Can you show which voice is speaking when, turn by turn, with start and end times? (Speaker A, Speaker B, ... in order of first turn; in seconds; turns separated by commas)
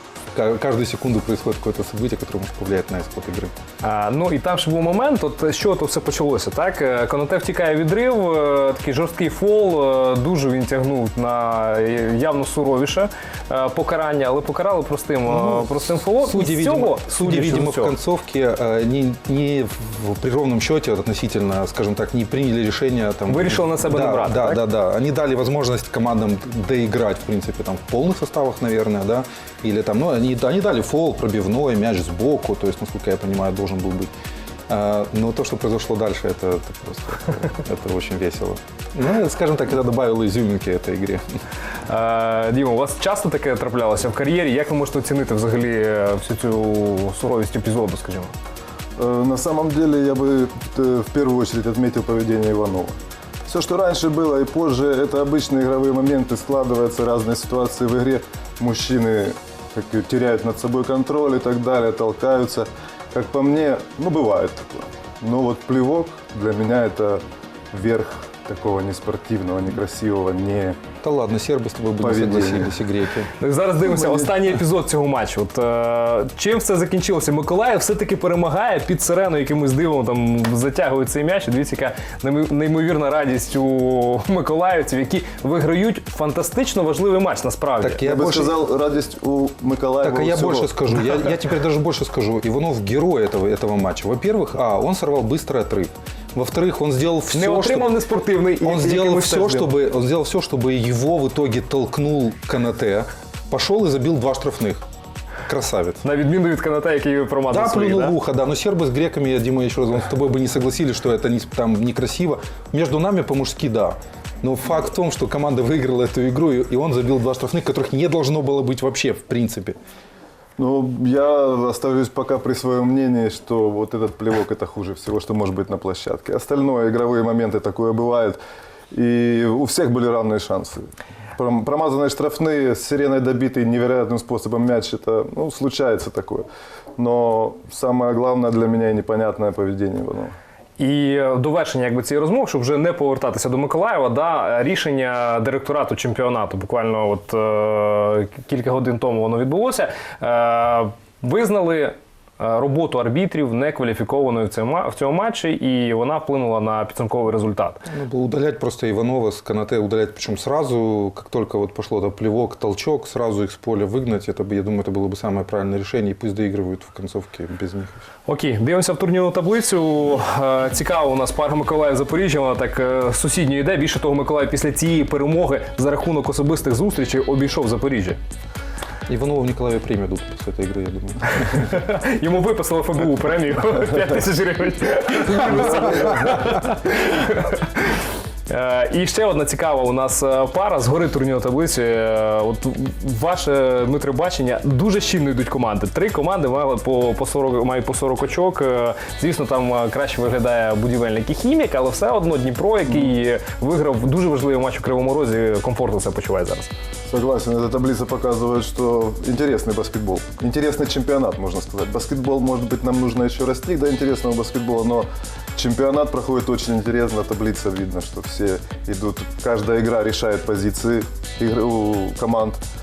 Speaker A: 0.3-3.5, Speaker B: 3.8-17.9, Speaker A: 15.3-34.1, Speaker B: 23.3-24.6, Speaker A: 34.7-41.2, Speaker B: 41.9-48.3, Speaker C: 49.0-53.0, Speaker C: 53.5-70.8, Speaker A: 71.0-73.3, Speaker C: 72.0-72.8, Speaker B: 73.4-88.0, Speaker C: 73.9-74.3, Speaker A: 87.8-88.6, Speaker C: 88.0-91.4, Speaker A: 90.0-98.0, Speaker B: 97.3-99.7, Speaker A: 98.6-104.8, Speaker A: 105.5-106.0, Speaker B: 106.0-108.2, Speaker A: 107.5-119.8, Speaker C: 120.6-128.4, Speaker C: 128.9-140.3, Speaker B: 140.8-157.8, Speaker A: 157.9-168.1, Speaker B: 168.3-178.2, Speaker A: 179.1-181.7, Speaker B: 181.5-206.7, Speaker C: 207.1-222.6